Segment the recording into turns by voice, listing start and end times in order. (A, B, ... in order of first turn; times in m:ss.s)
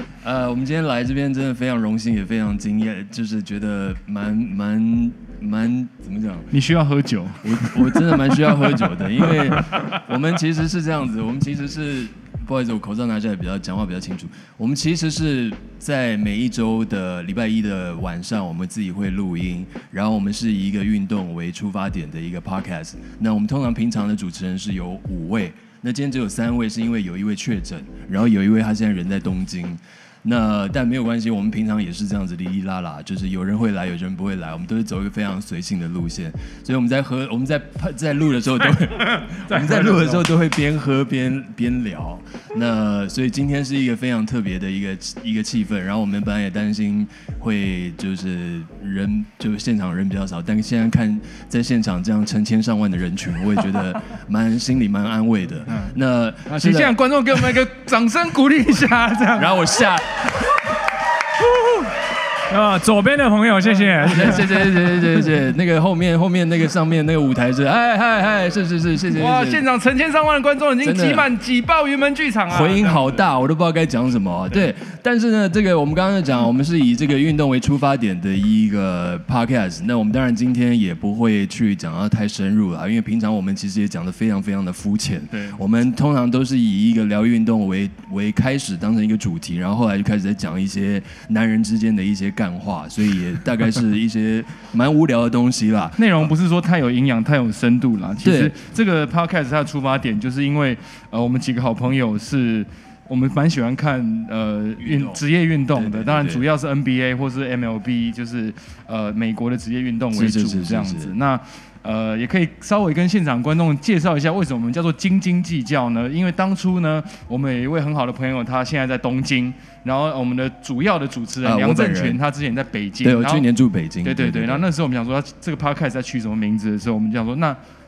0:00.2-0:06.5 A
0:06.5-0:08.4 B
0:07.4-0:57.0 A
0:39.5-0:40.2 C
0:56.5-0:59.9 B
0:59.4-1:00.4 A
1:02.5-1:05.1 C
1:04.0-1:09.6 A
1:09.1-1:13.2 B
1:10.8-1:11.3 A
1:12.5-1:36.3 A
1:25.3-1:25.6 B
1:36.0-2:03.5 B
1:38.2-1:38.6 A
1:44.8-1:46.5 A
1:50.1-1:51.2 A
2:01.4-2:02.2 A
2:03.0-2:04.7 A
2:04.0-2:07.6 B